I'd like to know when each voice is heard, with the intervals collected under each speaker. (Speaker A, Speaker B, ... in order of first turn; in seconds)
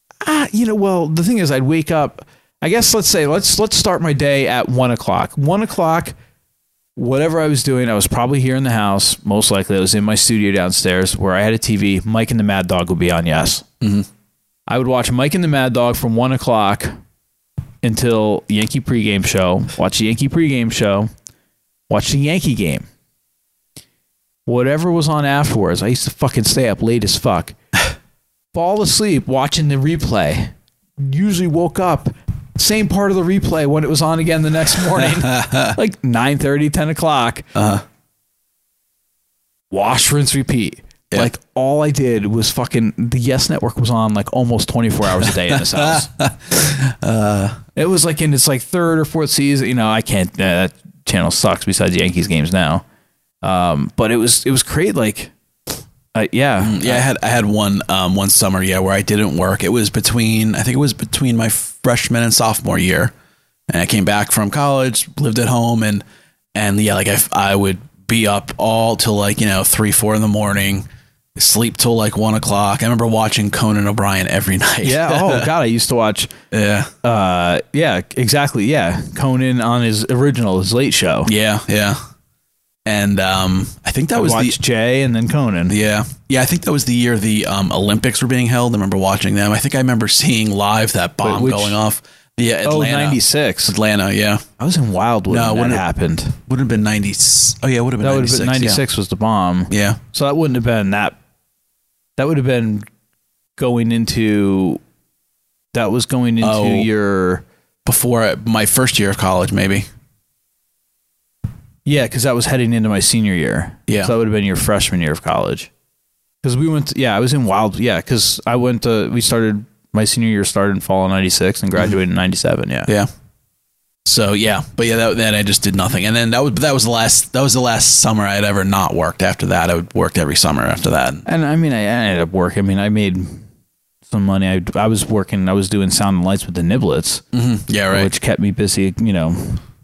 Speaker A: 0.2-6.1, 7.0-13.7, 14.7-16.9, 17.8-21.1, 21.9-22.9, 24.4-27.5, 28.5-37.5, 39.7-46.1, 47.8-52.8, 53.4-55.3, 56.1-57.1, 74.8-76.3, 77.0-81.3, 84.1-85.7, 91.2-91.8, 92.6-93.7, 94.6-96.3, 98.0-101.2, 102.2-102.8, 103.6-104.8, 105.7-107.4, 111.8-115.7, 116.4-122.9, 131.2-133.4, 134.1-137.2, 137.9-139.6
Speaker B: 13.8-14.1, 34.9-35.7, 37.5-37.8, 45.1-47.6, 56.6-63.1, 63.7-66.0, 66.5-75.5, 76.5-76.9, 81.2-82.0, 82.8-84.6, 85.7-94.4, 95.3-95.8, 96.5-98.8, 99.7-100.0, 106.4-106.9, 107.8-109.9, 124.0-131.2, 137.3-138.1